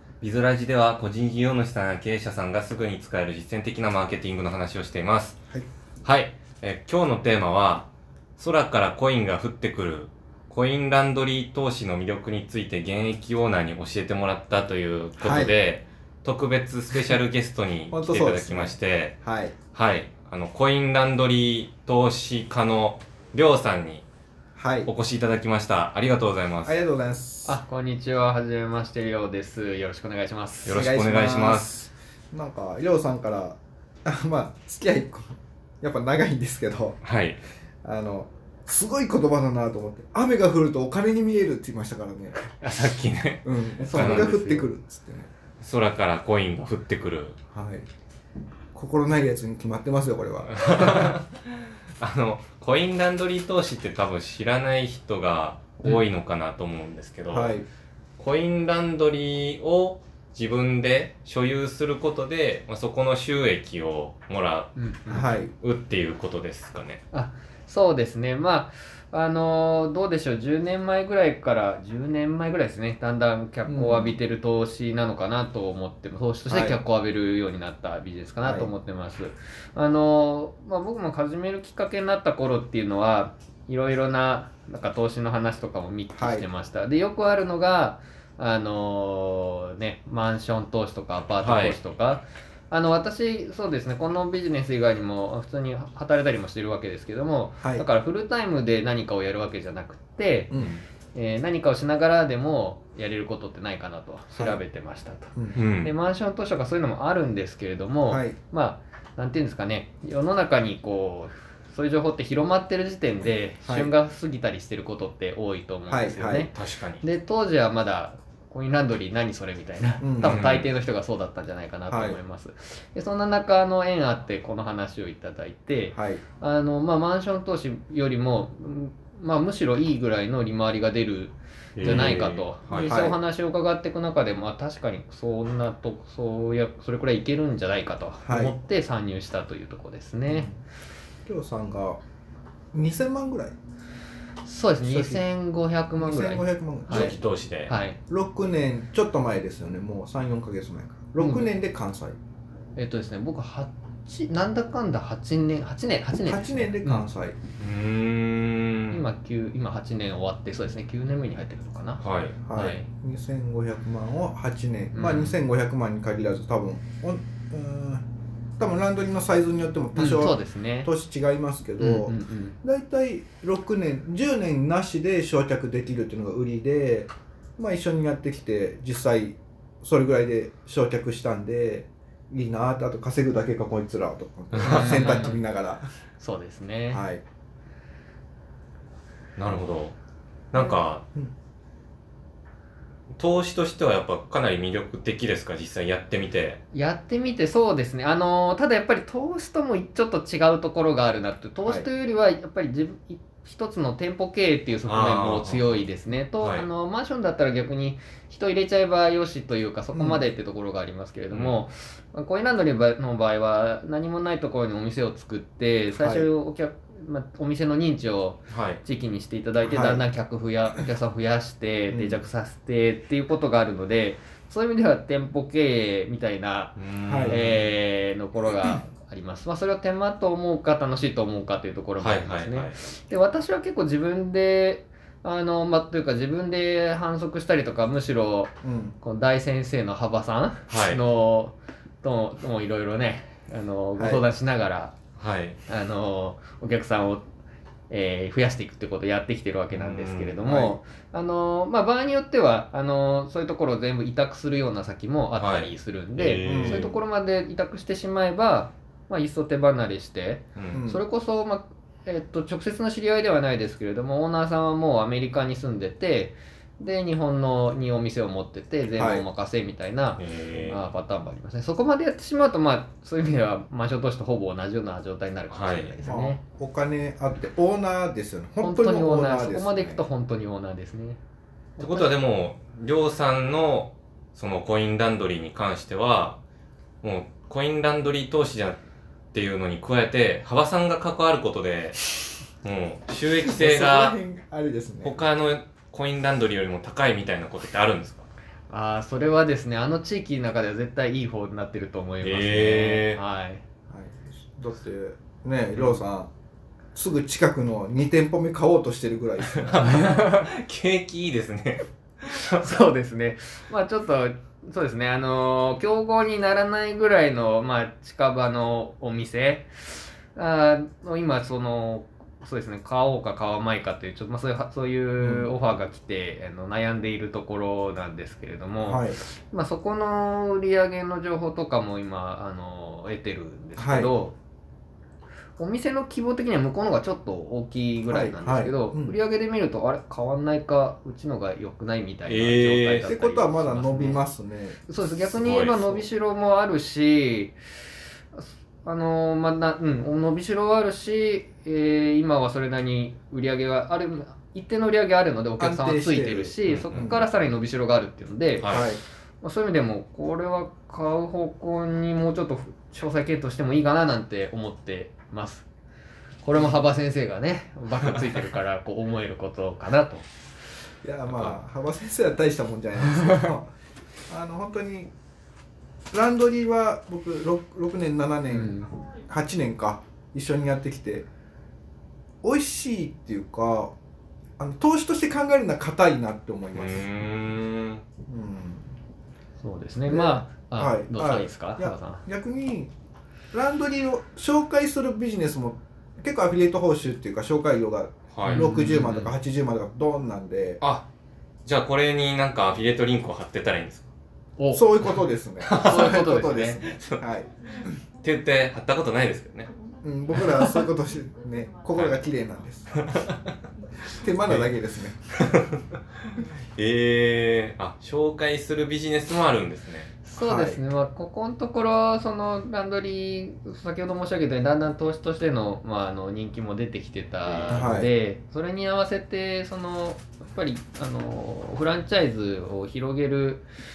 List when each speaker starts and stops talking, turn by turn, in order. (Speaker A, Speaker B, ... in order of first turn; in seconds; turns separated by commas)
Speaker A: 0.2-5.3, Speaker A: 6.0-19.1, Speaker B: 15.2-15.6, Speaker B: 17.9-19.5, Speaker A: 19.7-24.0, Speaker B: 24.6-24.9, Speaker A: 24.9-26.8, Speaker B: 26.6-27.6, Speaker C: 27.4-30.8, Speaker A: 30.6-31.9, Speaker B: 30.7-37.0, Speaker A: 37.0-37.4, Speaker B: 37.8-42.4, Speaker A: 42.6-44.4, Speaker B: 43.4-45.3, Speaker C: 43.8-44.8, Speaker A: 45.6-47.4, Speaker B: 47.5-47.9, Speaker B: 48.7-51.2, Speaker A: 50.5-57.5, Speaker B: 57.3-57.6, Speaker A: 58.2-64.7, Speaker C: 64.7-65.3, Speaker B: 65.1-65.5, Speaker A: 65.4-67.0, Speaker C: 67.1-100.5, Speaker B: 73.7-74.2, Speaker B: 76.5-76.8, Speaker B: 78.4-78.7, Speaker B: 86.1-86.5, Speaker A: 91.4-91.8, Speaker B: 97.6-97.8, Speaker A: 100.5-100.8, Speaker C: 101.1-140.5, Speaker B: 104.3-104.6, Speaker B: 105.3-105.6, Speaker A: 105.5-105.9, Speaker B: 108.1-108.4, Speaker B: 113.6-113.9, Speaker B: 115.9-116.5, Speaker A: 116.5-117.0, Speaker B: 120.0-120.5, Speaker A: 120.2-120.7, Speaker B: 121.9-122.2, Speaker B: 125.9-126.2, Speaker A: 131.8-132.9, Speaker B: 131.8-132.2, Speaker B: 132.9-133.2, Speaker B: 138.2-138.5, Speaker B: 140.3-140.6, Speaker B: 141.2-142.0, Speaker B: 142.7-143.6, Speaker C: 144.4-147.2, Speaker B: 144.8-145.2, Speaker B: 146.0-147.2, Speaker A: 146.9-147.8, Speaker C: 147.7-148.0, Speaker B: 148.1-152.2, Speaker C: 151.2-151.5, Speaker C: 152.8-157.0, Speaker B: 156.2-157.4, Speaker A: 157.6-159.0, Speaker C: 158.9-162.9, Speaker A: 162.0-162.5, Speaker B: 162.4-168.0, Speaker C: 164.9-165.4, Speaker B: 168.6-185.8, Speaker C: 169.9-170.9, Speaker C: 171.8-172.6, Speaker A: 184.5-184.9, Speaker C: 184.6-185.4, Speaker C: 186.2-187.0, Speaker B: 186.9-187.2, Speaker A: 189.4-189.9, Speaker A: 190.5-191.0, Speaker A: 193.2-196.6, Speaker C: 196.7-244.9, Speaker A: 204.8-205.8, Speaker A: 206.4-206.7, Speaker B: 209.9-210.2, Speaker A: 211.3-211.6, Speaker B: 215.9-216.3, Speaker A: 218.5-218.8, Speaker B: 219.6-220.1, Speaker B: 221.9-222.2, Speaker A: 226.8-227.7, Speaker B: 227.1-227.4, Speaker A: 232.0-232.8, Speaker B: 238.6-238.9, Speaker A: 240.7-241.0, Speaker B: 244.0-244.2, Speaker A: 245.2-245.6, Speaker C: 245.7-247.2, Speaker C: 247.9-276.4, Speaker A: 249.7-250.4, Speaker B: 250.4-250.8, Speaker A: 255.3-256.9, Speaker B: 256.4-257.0, Speaker A: 260.6-260.8, Speaker B: 260.7-261.0, Speaker B: 268.9-269.2, Speaker A: 270.2-270.9, Speaker A: 275.5-276.0, Speaker B: 276.0-280.0, Speaker C: 278.6-281.2, Speaker C: 281.8-282.2, Speaker A: 281.8-286.4, Speaker A: 287.0-288.8, Speaker A: 289.3-292.0, Speaker A: 292.6-294.1, Speaker B: 293.4-295.2, Speaker A: 295.0-298.3, Speaker C: 298.7-303.6, Speaker A: 302.2-303.2, Speaker B: 303.9-306.3, Speaker B: 306.9-309.8, Speaker A: 309.5-312.8, Speaker C: 309.8-310.5, Speaker C: 312.5-334.3, Speaker B: 325.2-325.5, Speaker B: 328.8-329.2, Speaker B: 333.8-334.1, Speaker C: 335.6-344.2, Speaker B: 338.1-339.1, Speaker A: 342.3-343.1, Speaker B: 343.0-344.8, Speaker C: 344.9-347.6, Speaker A: 345.3-346.1, Speaker C: 348.3-358.7, Speaker B: 355.6-357.2, Speaker A: 356.6-357.1, Speaker A: 358.6-358.9, Speaker B: 358.7-359.0, Speaker C: 359.4-365.6, Speaker C: 366.4-370.2, Speaker B: 371.0-373.7, Speaker B: 374.3-375.1, Speaker B: 376.1-381.3, Speaker C: 378.5-378.9, Speaker B: 382.4-383.9, Speaker B: 384.6-387.1, Speaker A: 386.7-388.0, Speaker B: 388.3-388.8, Speaker C: 389.6-392.2, Speaker B: 390.1-392.9, Speaker B: 393.5-400.8, Speaker A: 398.3-398.7, Speaker C: 398.4-399.3, Speaker A: 400.8-401.1, Speaker A: 401.6-404.1, Speaker C: 404.6-404.9, Speaker B: 404.7-407.5, Speaker A: 405.6-407.2, Speaker C: 405.8-406.8, Speaker A: 407.9-409.7, Speaker B: 410.0-413.0, Speaker B: 414.1-415.1, Speaker A: 414.4-414.7, Speaker A: 415.3-415.8, Speaker A: 416.4-420.2, Speaker C: 420.2-433.6, Speaker B: 420.4-420.8, Speaker A: 427.4-427.9, Speaker B: 427.7-428.1